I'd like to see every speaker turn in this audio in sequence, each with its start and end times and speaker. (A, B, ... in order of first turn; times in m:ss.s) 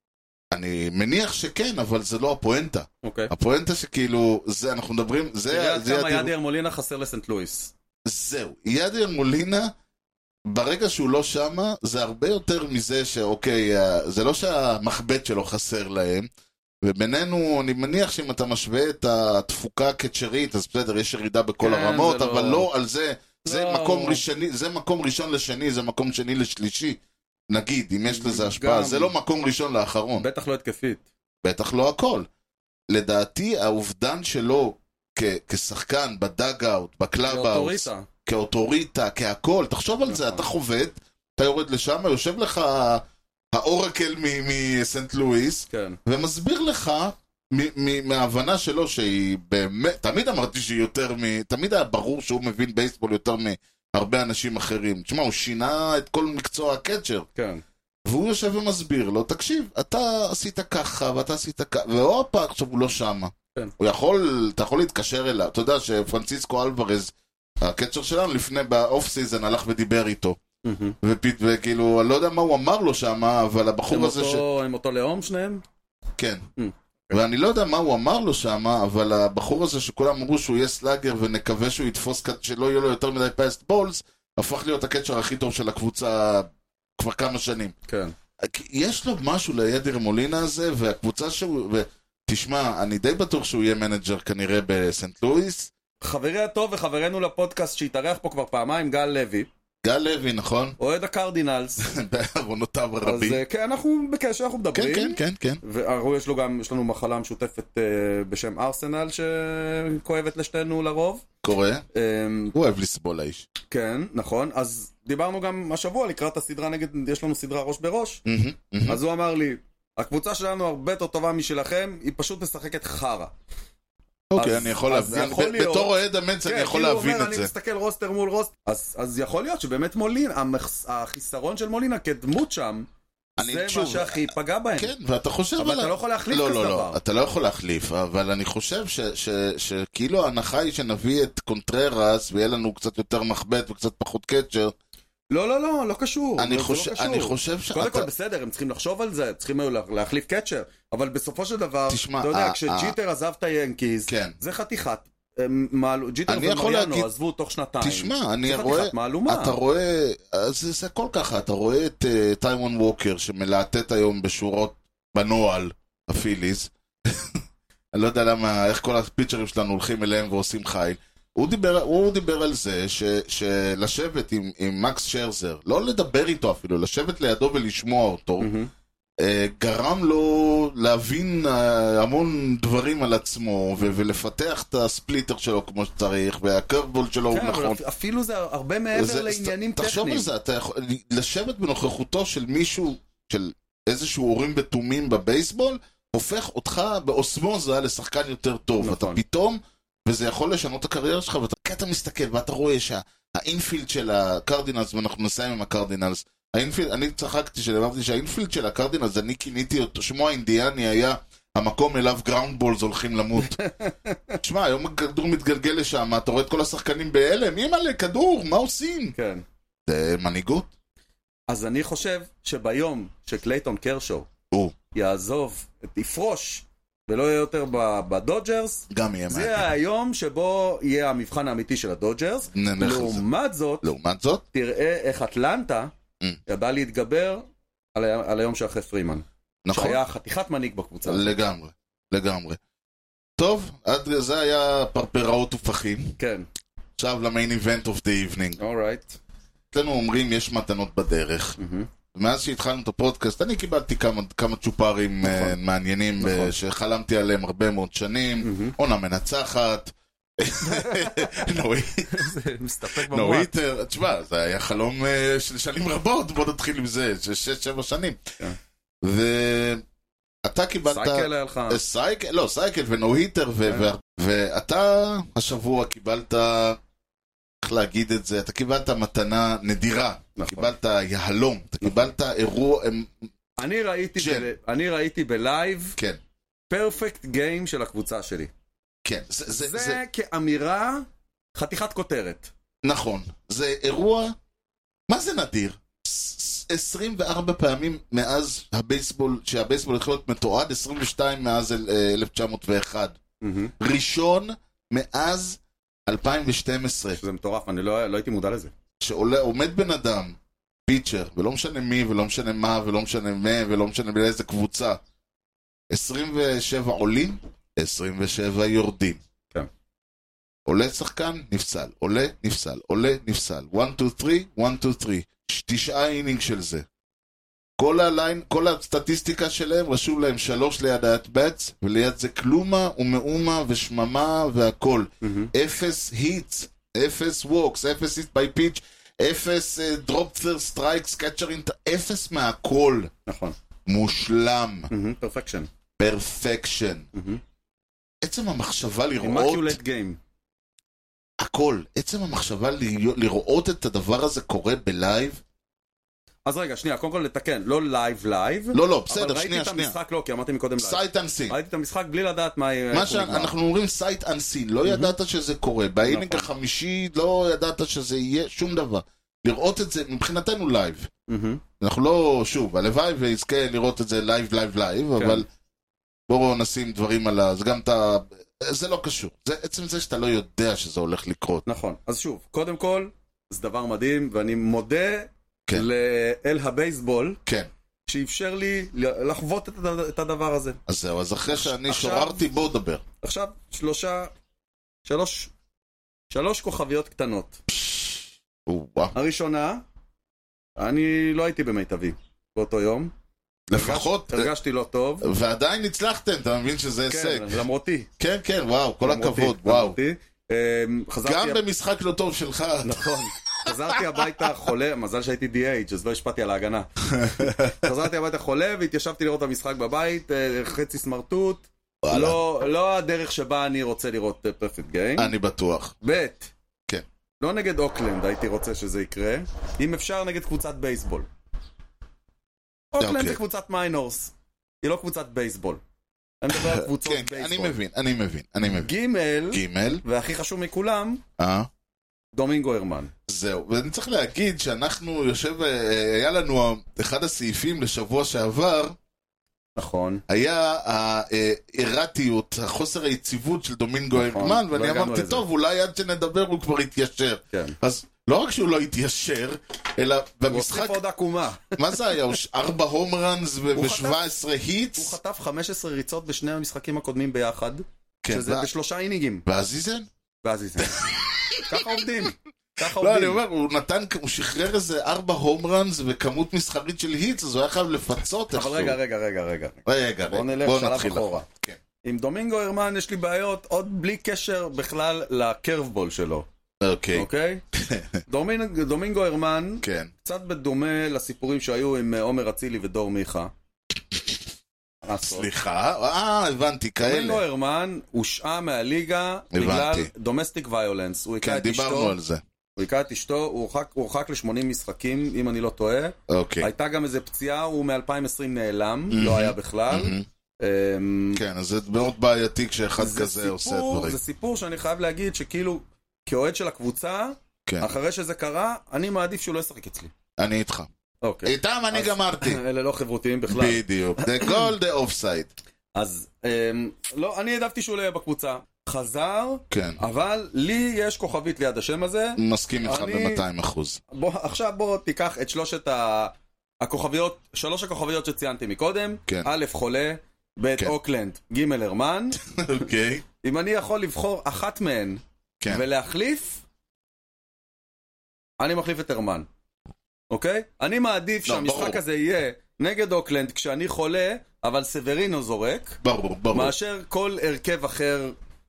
0:00.5-0:06.3 A
0:03.0-0:03.3 B
0:05.5-0:07.7 B
0:08.0-0:09.7 A
0:10.5-0:16.3 A
0:16.8-0:27.0 A
0:21.6-0:22.7 B
0:23.4-0:24.2 B
0:27.5-0:30.2 A
0:28.1-0:29.1 B
0:30.2-0:31.0 B
0:31.4-0:32.3 A
0:32.9-0:57.2 A
0:37.3-0:38.1 B
0:40.0-0:40.4 B
0:45.7-0:46.0 B
0:57.4-0:57.6 B
0:58.0-1:10.4 A
1:10.6-1:11.0 B
1:11.0-1:14.4 A
1:13.9-1:15.6 B
1:16.2-1:16.4 A
1:16.6-1:17.1 B
1:17.1-1:27.7 A
1:27.9-1:28.1 B
1:28.4-1:35.7 A
1:36.0-1:39.5 B
1:39.8-1:40.8 A
1:40.8-1:41.8 B
1:41.8-1:43.4 A
1:43.0-1:51.2 B
1:44.7-1:45.6 A
1:51.4-1:51.8 A
1:51.9-1:52.5 B
1:52.5-1:53.4 A
1:53.7-1:58.2 B
1:58.2-1:59.0 A
1:58.8-2:03.3 B
2:04.3-2:07.5 A
2:04.3-2:12.9 B
2:13.4-2:14.9 B
2:13.4-2:24.7 A
2:15.6-2:17.0 B
2:25.3-2:39.6 B
2:26.4-2:28.1 A
2:31.9-2:32.9 A
2:34.1-2:34.4 A
2:36.3-2:37.1 A
2:37.8-2:47.3 A
2:47.9-2:58.5 A
2:58.4-2:58.7 B
2:59.2-3:07.8 A
3:07.3-3:10.3 B
3:08.9-3:33.6 A
3:18.8-3:19.2 B
3:33.4-3:34.4 B
3:34.4-3:39.1 A
3:39.1-3:39.4 B
3:39.8-3:40.7 A
3:41.5-3:44.3 B
3:44.9-3:53.9 B
3:48.9-3:49.7 A
3:52.5-3:53.2 A
3:53.8-3:54.4 A
3:54.5-3:55.9 B
3:56.5-4:01.3 B
3:59.6-4:00.0 A
4:01.0-4:02.6 A
4:03.4-4:06.2 A
4:06.2-4:06.4 B
4:07.0-4:08.6 A
4:08.6-4:09.2 B
4:09.7-4:11.6 A
4:11.6-4:11.9 B
4:12.1-4:22.2 A
4:15.2-4:15.6 B
4:16.2-4:16.5 B
4:18.4-4:18.7 B
4:20.6-4:21.5 B
4:22.1-4:23.5 B
4:23.0-4:28.3 A
4:29.0-4:29.8 A
4:30.4-4:36.8 A
4:30.8-4:31.8 B
4:33.6-4:33.9 B
4:37.6-4:43.1 A
4:40.4-4:40.7 B
4:43.6-4:46.0 B
4:44.2-4:44.5 A
4:46.7-4:48.5 B
4:49.0-4:50.0 A
4:49.6-4:52.5 B
4:52.8-4:54.3 A
4:55.1-5:03.2 A
5:03.4-5:03.7 B
5:03.8-5:07.2 A
5:07.2-5:08.7 B
5:09.0-5:10.4 A
5:10.9-5:15.0 A
5:15.9-5:19.2 A
5:20.6-5:26.8 A
5:27.8-5:43.1 A
5:35.2-5:35.5 B
5:43.2-5:43.6 B
5:43.8-5:44.9 A
5:44.9-5:45.7 B
5:46.0-5:47.0 A
5:47.1-5:47.4 B
5:48.2-5:49.8 A
5:49.2-5:50.2 B
5:51.4-5:55.4 A
5:56.4-6:03.5 B
5:58.7-5:59.9 A
6:00.8-6:01.6 A
6:02.9-6:11.1 A
6:04.8-6:05.1 B
6:06.0-6:06.5 B
6:11.3-6:11.6 B
6:11.8-6:15.5 A
6:15.2-6:15.4 B
6:16.3-6:21.6 A
6:21.6-6:27.4 B
6:28.1-6:30.8 B
6:30.9-6:33.0 A
6:31.5-6:32.4 B
6:33.2-6:34.3 B
6:35.0-6:35.5 B
6:36.3-6:37.6 B
6:37.7-6:39.1 A
6:39.1-6:39.8 B
6:40.8-6:43.1 B
6:43.7-6:44.5 A
6:43.7-6:45.3 B
6:45.2-6:47.6 A
6:47.1-6:48.1 B
6:48.2-6:50.0 A
6:49.0-6:51.6 B
6:51.2-6:54.1 A
6:52.8-7:05.3 B
6:57.1-6:57.8 A
7:02.0-7:02.4 A
7:05.2-7:05.9 A
7:06.0-7:06.5 B
7:07.4-7:11.3 B
7:12.9-7:15.8 B
7:13.0-7:13.4 A
7:16.4-7:17.8 B
7:16.5-7:18.9 A
7:18.6-7:21.2 B
7:19.5-7:20.0 A
7:21.4-7:21.7 A
7:22.3-7:23.1 B
7:23.3-7:29.0 A
7:29.8-7:30.2 B
7:30.3-7:41.0 A
7:34.1-7:35.4 B
7:40.5-7:42.0 B
7:41.7-7:45.2 A
7:43.7-7:44.2 B
7:45.0-7:49.4 B
7:48.2-7:48.7 A
7:49.4-7:50.1 A
7:50.4-7:51.1 B
7:50.9-7:52.0 A
7:51.6-7:53.4 B
7:52.8-7:59.0 A
7:58.5-8:01.4 B
7:59.8-8:01.8 A
8:02.0-8:06.5 B
8:06.8-8:08.2 A
8:07.1-8:07.6 B
8:08.3-8:13.5 B
8:09.8-8:10.1 A
8:15.0-8:15.5 B
8:15.2-8:17.4 A
8:17.0-8:22.2 B
8:19.5-8:20.1 A
8:21.4-8:22.4 A
8:22.8-8:31.4 B
8:26.3-8:26.7 A
8:29.1-8:30.2 A
8:31.3-8:34.2 A
8:33.0-8:40.1 B
8:37.6-8:37.9 A
8:40.4-8:40.9 A
8:41.2-8:44.7 B
8:41.4-8:42.6 A
8:43.5-8:45.5 A
8:45.9-8:53.4 B
8:49.7-8:50.0 A
8:52.4-8:54.0 A
8:54.1-9:02.4 B
8:59.3-8:59.5 A
9:02.5-9:03.2 A
9:03.4-9:06.6 B
9:05.6-9:05.8 A
9:08.6-9:09.5 B
9:10.3-9:16.0 B
9:11.4-9:12.0 A
9:16.0-9:16.7 A
9:16.5-9:18.4 B